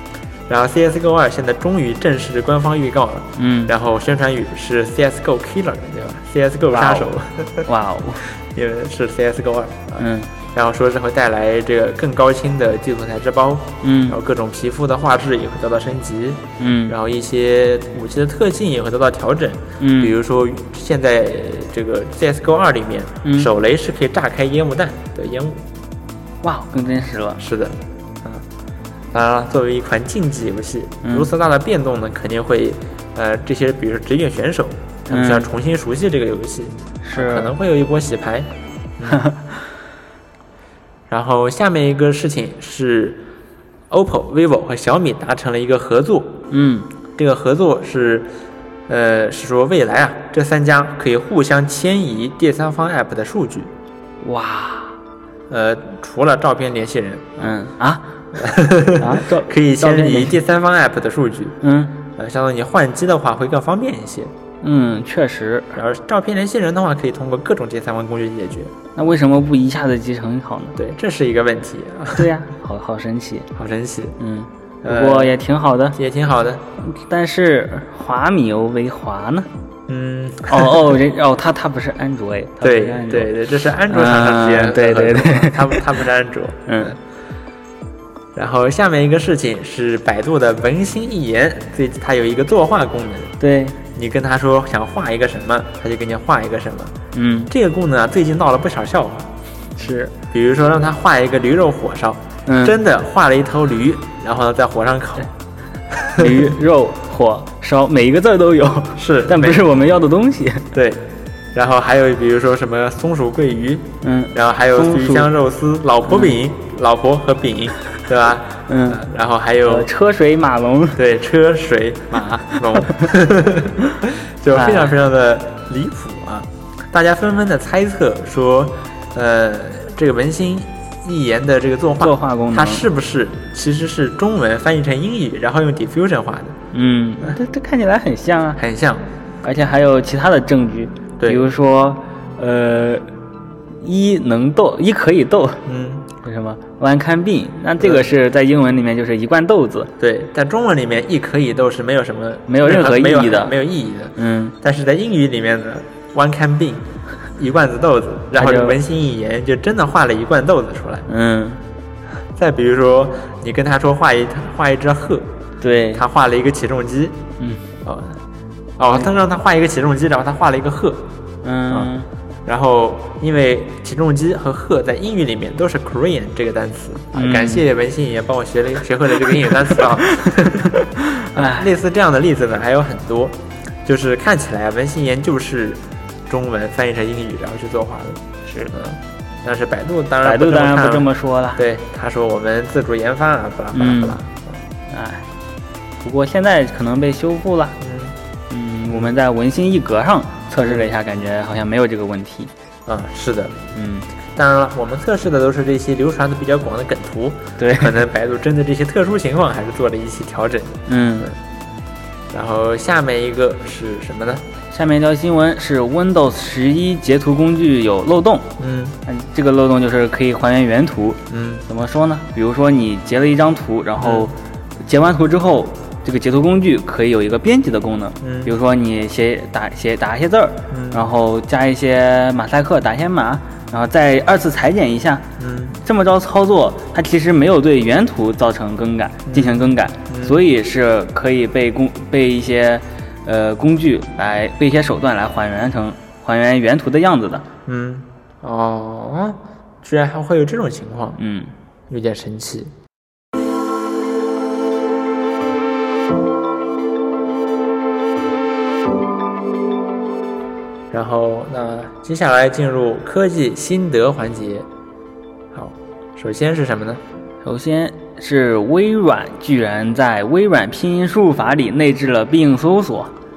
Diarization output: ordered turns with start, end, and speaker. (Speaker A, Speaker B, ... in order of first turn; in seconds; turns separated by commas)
Speaker A: 0.5-7.7, Speaker B: 3.4-3.7, Speaker B: 6.7-7.1, Speaker B: 7.7-8.2, Speaker A: 8.5-25.6, Speaker B: 10.0-10.3, Speaker B: 13.8-14.2, Speaker B: 16.6-17.0, Speaker B: 19.8-20.1, Speaker B: 23.2-23.5, Speaker B: 26.4-27.4, Speaker A: 27.4-28.4, Speaker A: 29.1-39.2, Speaker B: 35.1-35.5, Speaker B: 37.0-37.5, Speaker B: 39.1-39.6, Speaker A: 41.1-43.2, Speaker A: 43.9-46.5, Speaker B: 46.5-46.9, Speaker A: 47.2-48.3, Speaker A: 48.9-53.7, Speaker B: 54.2-55.0, Speaker A: 55.5-57.4, Speaker B: 57.4-58.2, Speaker A: 58.4-61.6, Speaker B: 59.0-60.4, Speaker B: 61.6-62.0, Speaker A: 62.1-64.3, Speaker B: 64.6-65.8, Speaker A: 65.7-68.7, Speaker B: 69.0-70.8, Speaker A: 70.8-72.3, Speaker B: 72.1-73.5, Speaker A: 73.5-74.2, Speaker B: 74.2-76.0, Speaker A: 74.8-75.3, Speaker A: 75.9-76.6, Speaker B: 76.8-79.5, Speaker A: 79.9-81.0, Speaker B: 80.5-83.3, Speaker A: 82.6-87.0, Speaker B: 83.9-85.9, Speaker B: 86.7-87.0, Speaker A: 88.3-93.3, Speaker B: 93.4-93.8, Speaker A: 93.9-96.9, Speaker B: 97.1-97.5, Speaker A: 97.5-99.3, Speaker B: 99.8-100.1, Speaker A: 100.3-105.3, Speaker B: 102.5-102.8, Speaker A: 105.9-106.5, Speaker B: 106.1-110.7, Speaker A: 109.0-109.7, Speaker A: 110.7-119.9, Speaker B: 114.0-115.3, Speaker B: 116.1-116.4, Speaker B: 118.7-119.0, Speaker B: 119.7-121.0, Speaker A: 121.0-136.6, Speaker B: 122.7-123.1, Speaker B: 124.5-125.0, Speaker B: 132.0-132.8, Speaker B: 136.7-138.6, Speaker A: 138.6-139.1, Speaker B: 139.4-143.1, Speaker A: 141.2-141.5, Speaker B: 143.8-145.7, Speaker A: 145.7-146.1, Speaker B: 146.2-149.9, Speaker A: 147.8-148.1, Speaker A: 150.0-161.1, Speaker B: 152.5-153.6, Speaker B: 154.2-154.5, Speaker B: 158.3-158.8, Speaker B: 161.1-161.6, Speaker A: 162.4-165.3, Speaker B: 165.6-166.0, Speaker A: 165.9-167.2, Speaker A: 167.8-168.2, Speaker A: 168.8-171.0, Speaker B: 171.4-172.1, Speaker A: 172.5-194.6, Speaker B: 177.1-177.7, Speaker B: 179.5-180.3, Speaker B: 180.8-181.7, Speaker B: 188.5-188.7, Speaker B: 190.2-191.6, Speaker B: 193.7-194.2, Speaker B: 194.9-195.2, Speaker B: 196.0-197.8, Speaker A: 197.8-198.2, Speaker B: 198.5-202.5, Speaker A: 200.6-200.9, Speaker A: 202.9-203.6, Speaker B: 203.8-204.1, Speaker A: 204.4-211.4, Speaker B: 207.6-208.0, Speaker B: 210.9-211.3, Speaker A: 212.3-214.4, Speaker B: 214.7-218.5, Speaker A: 218.6-219.0, Speaker B: 219.1-224.3, Speaker A: 221.3-221.7, Speaker A: 224.0-224.3, Speaker B: 224.8-235.3, Speaker A: 228.2-228.6, Speaker A: 230.7-231.1, Speaker A: 235.4-235.8, Speaker B: 235.8-247.4, Speaker A: 239.3-240.4, Speaker A: 247.7-251.2, Speaker B: 251.2-251.5, Speaker A: 251.9-252.7, Speaker A: 260.9-264.7, Speaker A: 265.5-267.0, Speaker B: 267.4-273.1